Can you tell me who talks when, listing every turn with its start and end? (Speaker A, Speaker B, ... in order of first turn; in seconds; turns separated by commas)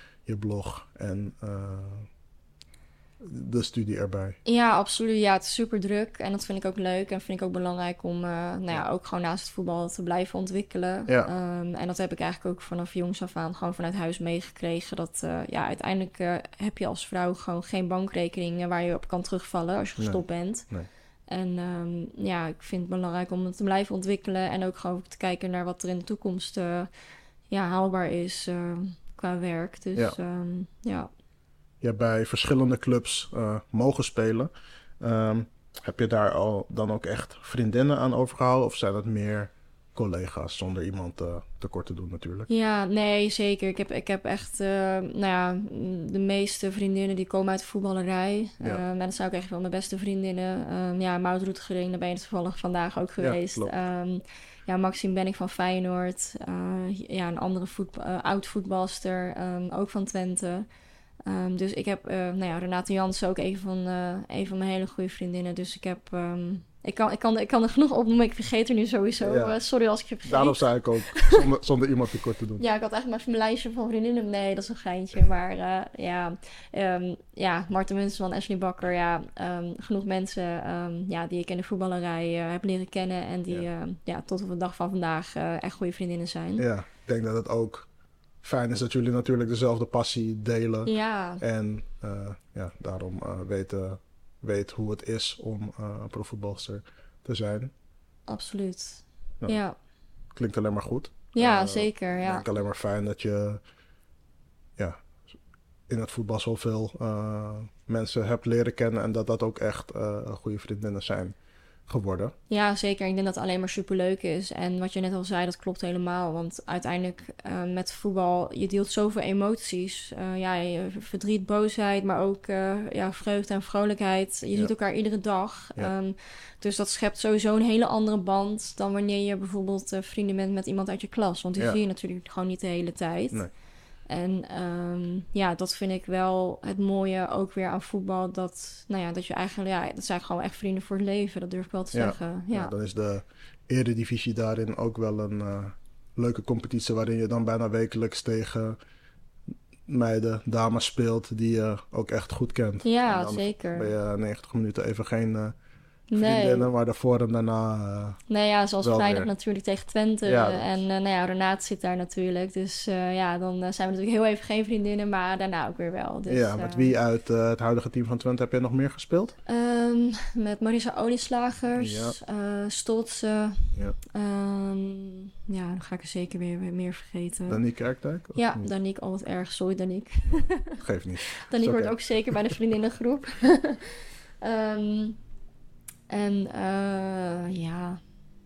Speaker A: 0.2-2.1, Speaker A: 3.2-4.4, Speaker B: 4.4-20.7, Speaker A: 20.0-20.9, Speaker B: 21.3-26.9, Speaker B: 27.5-31.1, Speaker A: 31.8-42.5, Speaker B: 42.5-60.6, Speaker A: 53.2-53.7, Speaker B: 61.2-71.4, Speaker A: 69.2-69.6, Speaker A: 70.2-72.6, Speaker B: 72.6-86.6, Speaker A: 86.6-87.9, Speaker A: 88.4-97.7, Speaker B: 90.8-91.4, Speaker B: 98.3-99.8, Speaker A: 100.3-103.6, Speaker B: 101.3-102.4, Speaker A: 104.8-105.2, Speaker A: 105.9-111.3, Speaker A: 111.9-112.3, Speaker B: 112.5-133.5, Speaker B: 134.1-142.7, Speaker A: 141.9-148.8, Speaker A: 149.9-155.5, Speaker B: 152.8-153.9, Speaker B: 156.1-156.7, Speaker A: 156.1-158.2, Speaker B: 158.3-167.0, Speaker A: 158.8-159.3, Speaker A: 160.2-160.7, Speaker A: 166.3-169.3, Speaker B: 169.4-177.6, Speaker A: 171.8-172.2, Speaker A: 177.5-178.7, Speaker B: 178.3-185.2, Speaker A: 180.3-182.5, Speaker B: 186.1-188.0